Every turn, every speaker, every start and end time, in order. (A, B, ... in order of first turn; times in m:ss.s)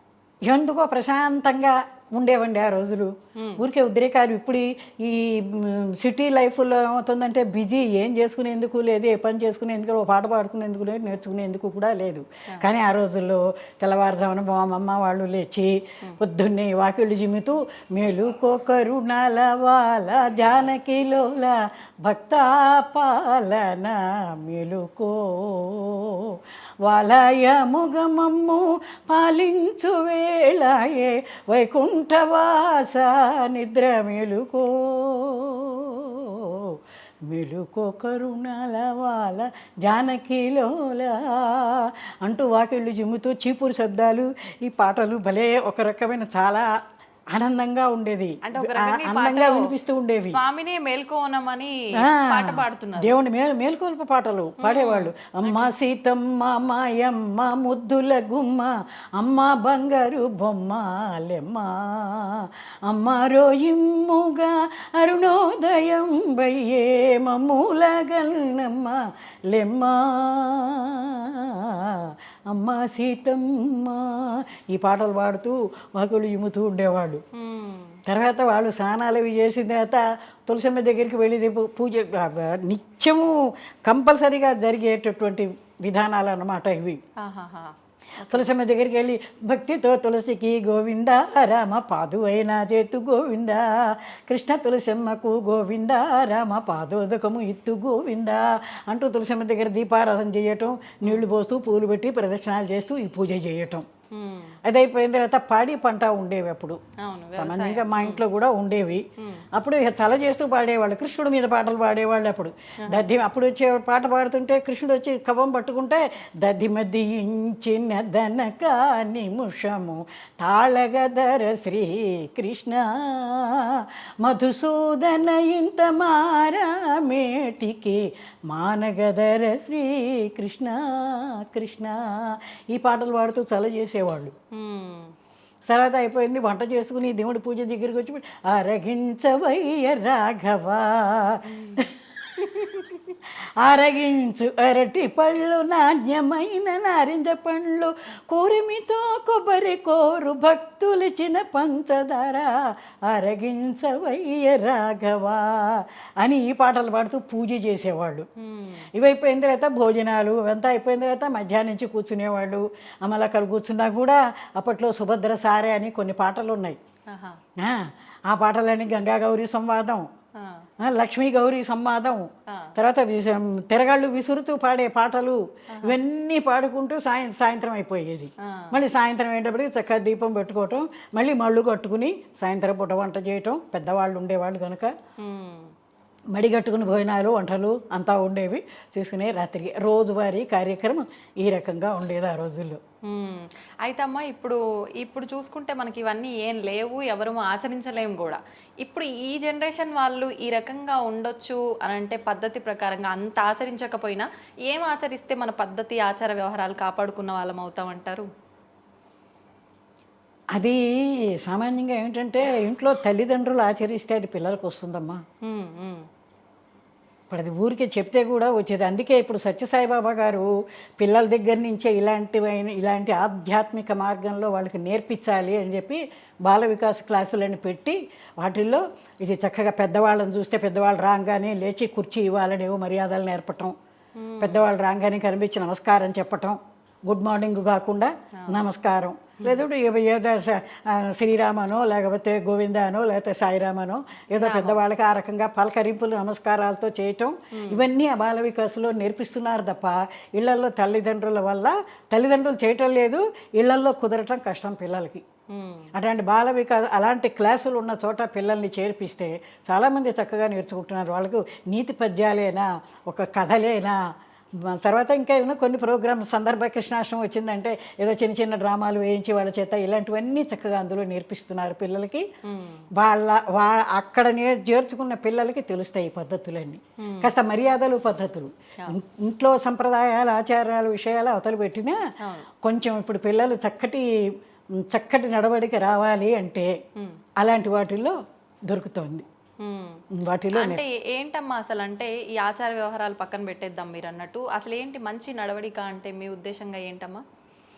0:00.5-0:46.7 A
0:03.4-0:03.6 B
0:47.3-0:50.4 A
0:48.4-0:49.7 B
0:50.3-0:53.2 B
0:52.0-1:17.2 A
0:54.6-0:55.7 B
1:17.4-1:18.0 B
1:18.1-1:23.3 A
1:23.8-1:27.0 A
1:27.2-1:28.5 B
1:28.3-1:43.9 A
1:44.1-1:44.6 B
1:44.6-1:46.8 A
1:47.0-1:48.2 B
1:47.4-2:14.4 A
1:49.2-1:49.4 B
2:14.5-2:15.1 B
2:15.7-2:22.8 A
2:21.5-2:21.9 B
2:22.6-2:23.1 B
2:23.6-2:38.3 A
2:38.4-2:38.9 B
2:39.0-2:46.8 A
2:47.1-2:47.4 B
2:47.6-2:50.1 A
2:50.4-2:50.7 B
2:50.8-3:05.0 A
2:52.5-2:52.7 B
2:55.7-2:56.0 B
2:58.4-2:58.8 B
3:05.2-3:05.7 B
3:06.3-3:12.8 A
3:13.0-3:28.3 B
3:30.6-3:30.8 A
3:31.4-3:35.2 A
3:35.4-3:36.1 B
3:37.3-3:40.5 A
3:41.0-3:53.8 A
3:54.2-3:54.6 B
3:54.4-4:15.2 A
4:04.4-4:04.8 B
4:07.5-4:07.8 B
4:15.5-4:15.9 B
4:15.9-4:24.0 A
4:24.6-4:32.3 A
4:32.4-4:32.9 B
4:33.0-4:42.0 A
4:37.0-4:37.3 B
4:42.2-4:42.5 B
4:42.6-4:44.1 A
4:44.8-4:46.7 A
4:47.4-4:48.2 A
4:48.7-4:49.2 A
4:49.6-4:50.0 B
4:50.1-4:50.8 A
4:50.5-4:57.2 B